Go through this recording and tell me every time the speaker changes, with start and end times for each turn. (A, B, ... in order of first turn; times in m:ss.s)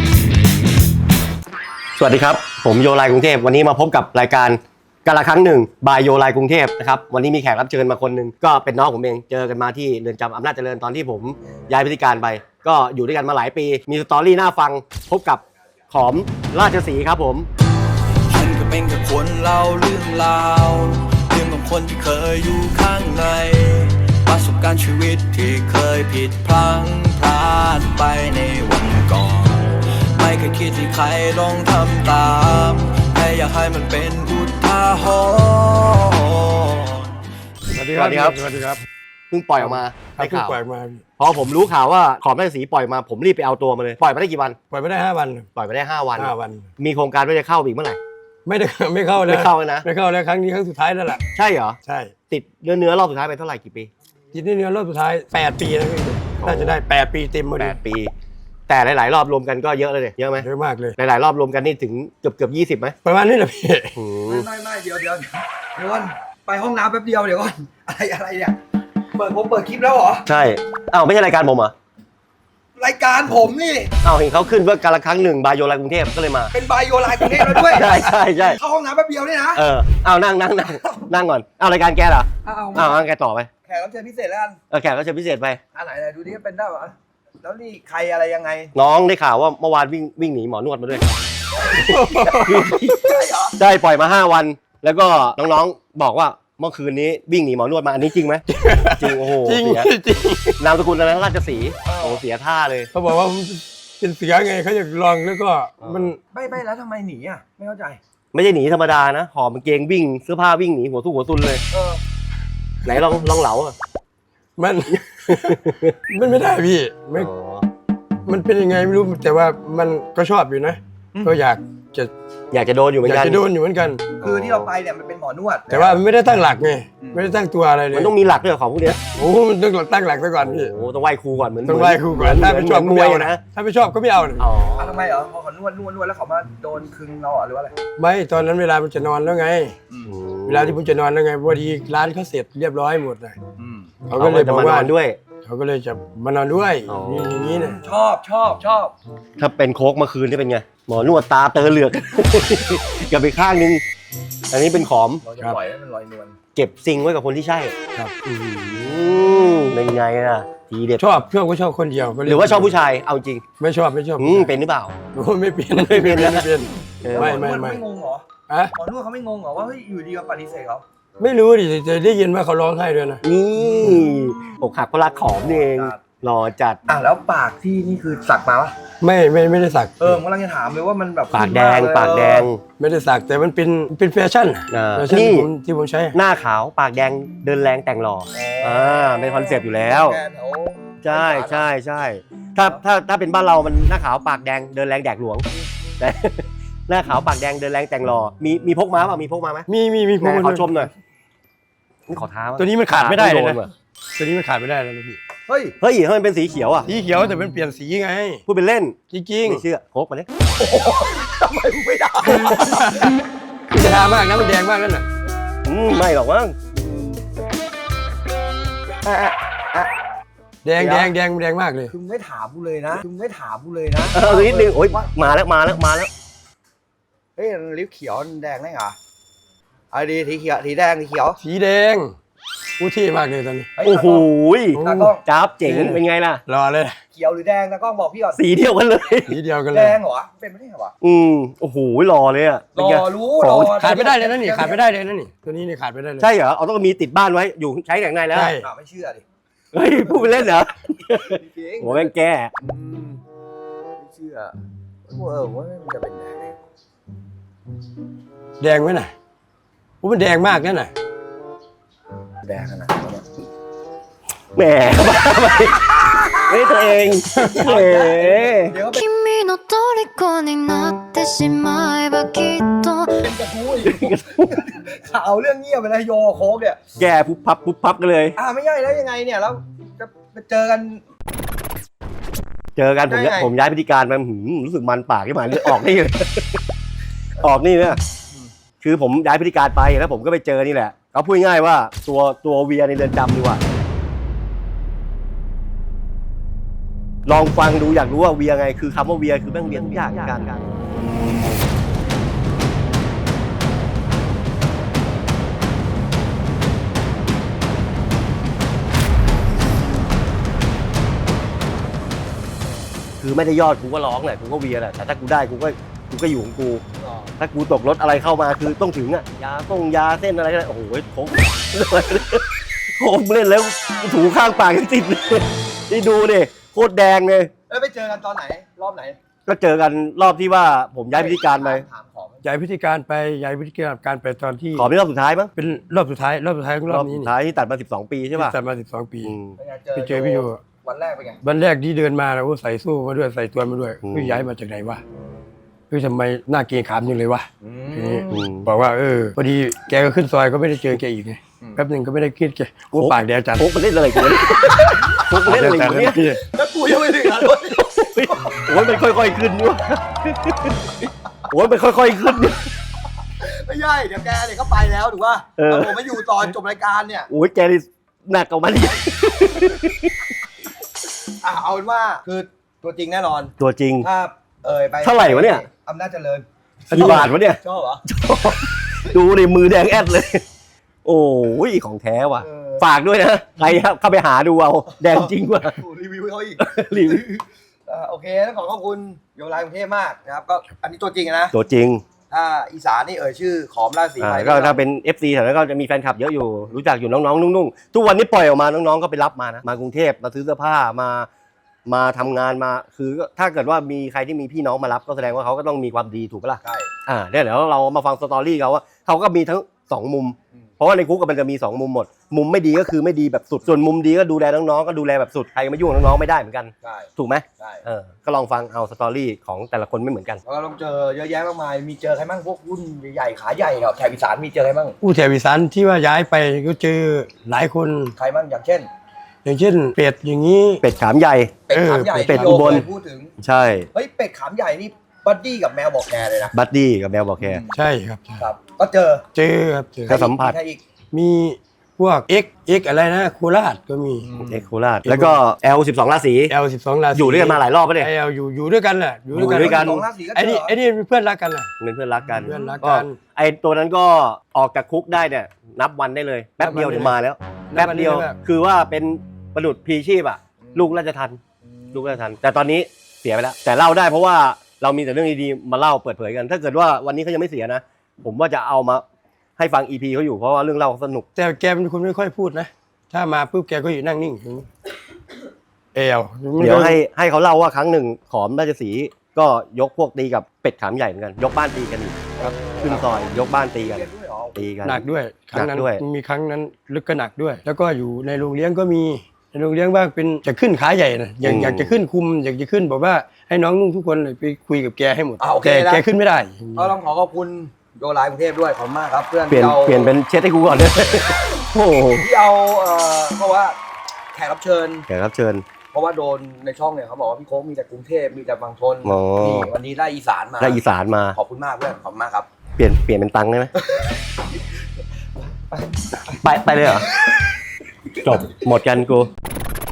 0:02.0-0:17.5 A
0:18.3-0:37.1 B
0:37.7-0:38.8 C
0:37.9-0:38.4 A
0:39.3-0:40.6 A
0:39.6-0:41.0 C
0:41.2-0:44.6 A
0:44.7-0:45.5 C
0:45.6-0:48.0 A
0:46.2-0:46.7 C
0:48.4-0:51.2 C
0:49.2-0:49.8 A
0:51.3-0:51.8 A
0:51.8-0:52.1 C
0:52.3-0:53.9 A
0:54.3-0:57.8 C
0:56.4-0:56.8 A
0:57.6-0:58.1 A
0:58.7-1:00.4 A
1:00.4-1:00.9 C
1:01.0-1:02.9 A
1:03.0-1:04.0 C
1:04.0-1:04.5 A
1:04.2-1:08.6 D
1:09.1-1:10.2 D
1:10.2-1:11.7 A
1:12.8-1:13.9 D
1:14.0-1:16.5 A
1:16.5-1:19.6 D
1:17.3-1:18.6 A
1:19.6-1:23.5 A
1:22.4-1:23.0 D
1:23.6-1:24.6 D
1:24.7-1:25.6 A
1:25.7-1:28.7 D
1:28.7-1:31.2 A
1:31.7-1:32.8 C
1:32.3-1:39.9 A
1:32.5-1:33.6 D
1:38.5-1:40.6 C
1:40.6-1:42.9 A
1:41.9-1:42.2 D
1:42.9-1:46.2 C
1:45.8-1:46.1 A
1:46.3-1:48.0 D
1:48.3-1:51.6 A
1:51.7-1:52.0 D
1:52.8-1:53.7 A
1:54.6-1:57.3 C
1:55.3-1:56.0 A
1:57.1-1:57.6 A
1:58.2-2:02.1 C
2:02.5-2:03.4 A
2:03.0-2:04.1 C
2:04.2-2:06.0 D
2:04.2-2:04.7 A
2:05.7-2:08.1 C
2:07.0-2:07.3 D
2:07.9-2:09.0 A
2:09.2-2:10.7 C
2:10.4-2:13.4 A
2:11.6-2:14.5 C
2:14.4-2:15.0 A
2:14.8-2:17.7 D
2:18.0-2:19.8 C
2:20.0-2:20.8 A
2:20.5-2:23.4 C
2:23.6-2:23.9 D
2:24.0-2:24.9 C
2:24.2-2:25.2 A
2:25.4-2:27.8 C
2:26.9-2:27.5 A
2:27.7-2:28.9 D
2:29.4-2:33.8 A
2:34.5-2:35.2 A
2:35.2-2:36.3 D
2:36.5-2:37.7 A
2:37.9-2:38.9 C
2:38.7-2:41.0 A
2:41.0-2:42.8 C
2:42.2-2:43.4 A
2:43.6-2:44.5 C
2:44.2-2:45.0 A
2:45.1-2:47.8 C
2:45.8-2:47.4 A
2:47.1-2:50.8 D
2:51.2-2:53.2 C
2:53.2-2:56.8 A
2:55.4-2:56.0 D
2:56.9-2:58.7 D
2:59.0-3:00.2 C
3:00.0-3:02.5 D
3:01.3-3:02.6 A
3:02.8-3:06.2 C
3:04.7-3:05.5 A
3:06.1-3:10.2 A
3:08.3-3:11.7 D
3:11.0-3:15.4 A
3:16.0-3:19.7 A
3:19.7-3:20.9 C
3:20.2-3:20.9 A
3:22.1-3:23.7 A
3:22.6-3:23.6 C
3:24.1-3:25.2 C
3:25.5-3:25.7 D
3:25.8-3:26.9 A
3:26.9-3:28.4 C
3:28.5-3:30.3 A
3:29.1-3:29.6 C
3:30.6-3:32.9 D
3:32.3-3:33.2 C
3:33.7-3:35.1 C
3:35.6-3:36.6 A
3:36.8-3:37.2 D
3:39.0-3:39.9 D
3:40.6-3:41.9 C
3:40.8-3:41.1 D
3:41.9-3:45.1 D
3:44.1-3:46.1 A
3:47.4-3:49.0 D
3:49.9-3:51.4 D
3:51.4-3:52.1 C
3:52.8-3:53.7 C
3:53.8-3:54.3 D
3:53.8-3:56.4 A
3:54.8-3:55.2 D
3:55.6-3:57.0 C
3:57.1-3:58.4 D
3:58.4-3:59.3 A
3:59.3-4:00.0 C
3:59.7-4:00.9 D
4:01.0-4:03.8 A
4:02.7-4:04.8 D
4:03.7-4:06.3 C
4:06.2-4:08.5 A
4:08.3-4:08.7 C
4:08.6-4:09.2 D
4:09.7-4:12.5 A
4:10.9-4:13.2 D
4:14.0-4:14.5 D
4:15.1-4:16.6 D
4:18.6-4:19.1 C
4:20.0-4:20.9 C
4:22.4-4:23.2 D
4:24.5-4:28.8 A
4:25.8-4:26.6 D
4:27.3-4:27.6 C
4:27.5-4:29.0 D
4:28.9-4:33.2 E
4:33.2-4:36.8 D
4:33.8-4:34.6 A
4:37.0-4:38.3 A
4:38.4-4:41.0 D
4:42.8-4:46.6 A
4:43.1-4:43.5 D
4:47.4-4:48.0 A
4:48.8-4:53.6 A
4:57.3-5:00.6 A
5:13.2-5:16.8 A
5:17.0-5:17.3 D
5:17.4-5:27.5 A
5:27.7-5:29.2 D
5:29.4-5:31.8 A
5:31.1-5:32.4 D
5:32.4-5:34.9 C
5:34.8-5:35.5 A
5:35.6-5:37.3 C
5:36.9-5:38.5 A
5:38.3-5:39.4 C
5:39.2-5:39.6 A
5:39.6-5:41.4 D
5:39.9-5:40.6 C
5:41.4-5:45.0 C
5:44.0-5:44.4 A
5:45.9-5:53.7 C
5:47.6-5:48.4 D
5:48.3-5:48.7 A
5:52.9-5:56.2 A
5:54.6-5:55.3 D
5:55.3-5:56.4 C
5:56.4-5:58.6 D
5:57.7-6:00.9 A
6:01.5-6:02.7 A
6:03.4-6:07.3 D
6:05.6-6:06.5 A
6:07.3-6:10.2 A
6:11.4-6:18.1 D
6:13.6-6:14.1 A
6:15.0-6:15.6 A
6:16.9-6:20.4 A
6:21.0-6:25.8 A
6:22.4-6:22.8 D
6:25.1-6:31.5 D
6:26.6-6:27.3 A
6:31.5-6:32.0 A
6:32.3-6:34.8 D
6:34.2-6:41.3 A
6:41.9-7:00.4 A
6:46.6-6:46.9 D
6:56.8-6:57.8 D
7:00.4-7:05.0 D
7:05.0-7:08.1 C
7:08.2-7:08.9 D
7:09.4-7:10.8 C
7:10.8-7:11.6 A
7:11.7-7:13.3 D
7:11.7-7:12.9 C
7:12.2-7:12.8 A
7:13.4-7:13.9 A
7:13.9-7:16.5 D
7:16.5-7:17.6 A
7:17.4-7:17.7 D
7:17.7-7:18.4 C
7:18.4-7:19.2 D
7:19.3-7:20.2 C
7:20.1-7:20.8 D
7:20.1-7:20.5 A
7:21.1-7:24.3 C
7:24.2-7:24.6 D
7:24.4-7:26.5 A
7:25.0-7:25.4 C
7:26.5-7:31.7 C
7:27.1-7:28.1 A
7:29.3-7:30.7 D
7:29.4-7:30.0 A
7:31.8-7:41.4 A
7:32.4-7:33.2 C
7:36.6-7:37.2 C
7:37.7-7:38.4 C
7:41.9-7:49.0 A
7:49.6-7:51.2 A
7:51.4-7:54.7 C
7:55.9-7:57.0 C
7:56.6-8:04.0 A
8:02.4-8:04.6 D
8:04.6-8:05.0 A
8:04.8-8:16.9 C
8:05.5-8:06.0 A
8:11.4-8:12.0 A
8:15.4-8:16.0 D
8:16.8-8:20.1 D
8:19.5-8:22.2 A
8:22.2-8:23.8 D
8:24.3-8:25.0 D
8:25.1-8:25.6 A
8:25.9-8:30.8 D
8:29.0-8:29.7 A
8:30.6-8:31.4 A
8:31.3-8:32.5 D
8:32.8-8:33.7 A
8:33.8-8:34.1 D
8:35.5-8:36.4 D
8:36.4-8:37.1 A
8:38.2-8:39.3 A